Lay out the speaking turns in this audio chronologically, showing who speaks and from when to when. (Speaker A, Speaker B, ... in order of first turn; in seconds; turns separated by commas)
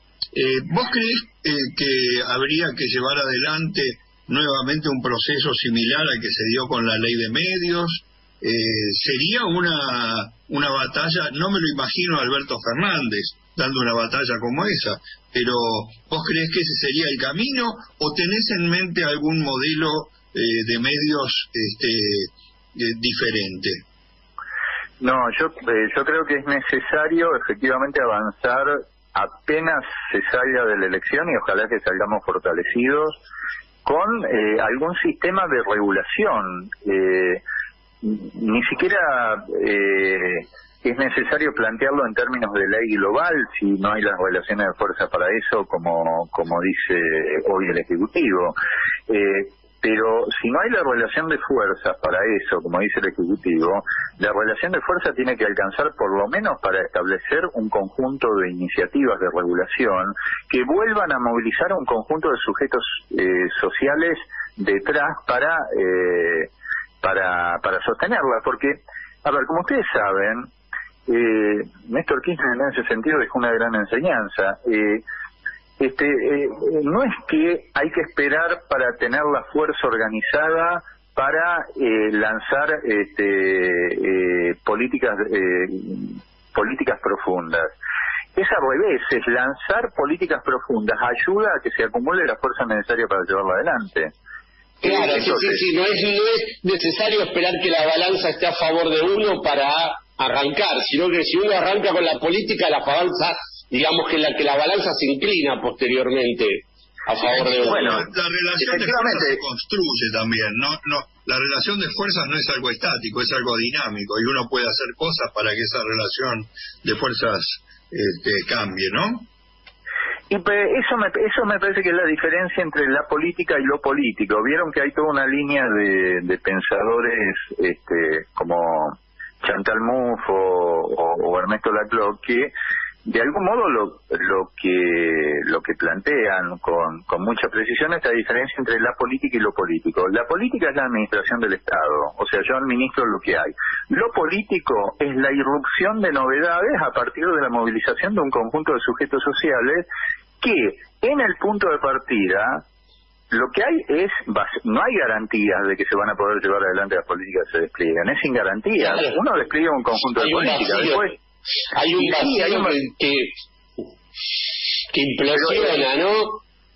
Speaker A: 0.3-23.8, Speaker B: 25.0-33.2, Speaker B: 33.9-37.4, Speaker B: 38.0-48.6, Speaker B: 49.1-66.5, Speaker B: 67.0-70.5, Speaker B: 71.1-75.0, Speaker B: 75.8-87.7, Speaker B: 88.4-94.1, Speaker C: 94.8-108.1, Speaker B: 94.8-95.7, Speaker A: 107.2-119.3, Speaker B: 107.7-108.1, Speaker B: 108.6-109.4, Speaker B: 120.3-132.5, Speaker B: 133.1-149.9, Speaker B: 150.4-152.6, Speaker B: 153.3-161.2, Speaker C: 158.8-159.2, Speaker C: 160.2-161.1, Speaker C: 161.7-163.8, Speaker B: 162.0-162.8, Speaker C: 164.9-166.4, Speaker B: 165.3-165.8